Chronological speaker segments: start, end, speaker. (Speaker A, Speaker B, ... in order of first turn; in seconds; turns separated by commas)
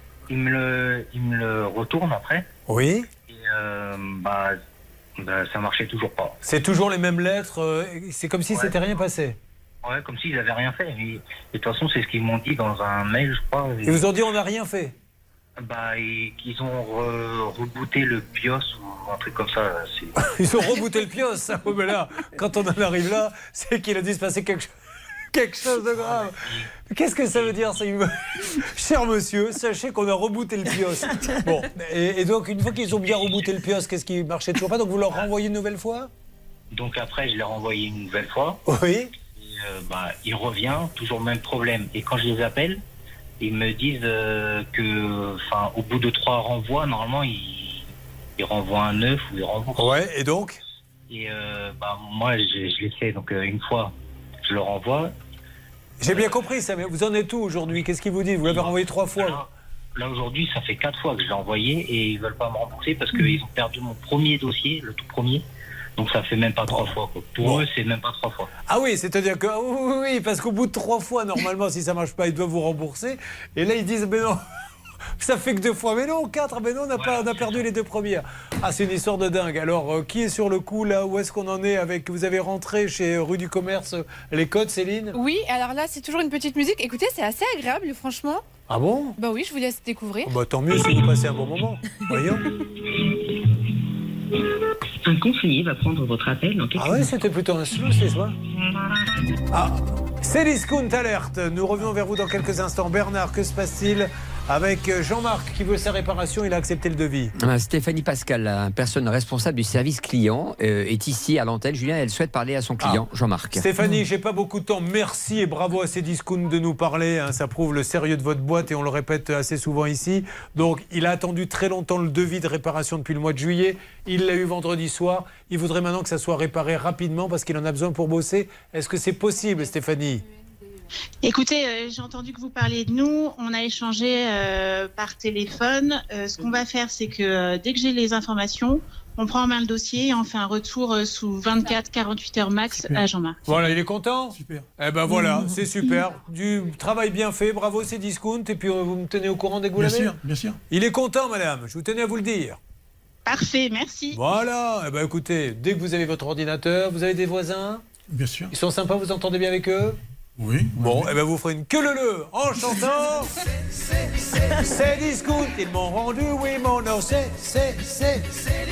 Speaker A: 0.3-2.5, Speaker B: 2.7-3.1, Speaker A: 3.3-4.6, Speaker A: 5.2-6.4, Speaker B: 6.4-9.4, Speaker A: 9.8-14.0, Speaker B: 13.8-14.9, Speaker A: 15.6-20.2, Speaker B: 20.2-24.7, Speaker B: 25.3-36.1, Speaker A: 26.0-26.7, Speaker A: 36.7-38.6, Speaker B: 38.7-39.1, Speaker A: 39.3-42.8, Speaker A: 43.4-49.9, Speaker B: 49.8-50.6, Speaker A: 51.1-55.1, Speaker B: 56.0-59.4, Speaker A: 58.5-65.5, Speaker A: 66.0-68.5, Speaker B: 66.7-67.7, Speaker B: 68.7-74.4, Speaker B: 75.2-85.2, Speaker A: 77.0-77.6, Speaker C: 85.1-88.4, Speaker B: 88.7-89.2, Speaker C: 89.2-90.3, Speaker B: 90.2-92.5, Speaker D: 95.1-97.0, Speaker B: 96.8-98.4, Speaker B: 99.5-107.3, Speaker E: 107.4-113.7, Speaker B: 112.8-130.2, Speaker F: 131.2-143.4, Speaker B: 143.5-150.2, Speaker G: 144.3-144.7, Speaker G: 149.8-150.6, Speaker B: 150.7-152.6, Speaker F: 153.3-154.2, Speaker B: 154.1-157.8, Speaker G: 158.1-158.5, Speaker B: 158.5-160.0, Speaker G: 160.4-161.1, Speaker B: 160.8-168.5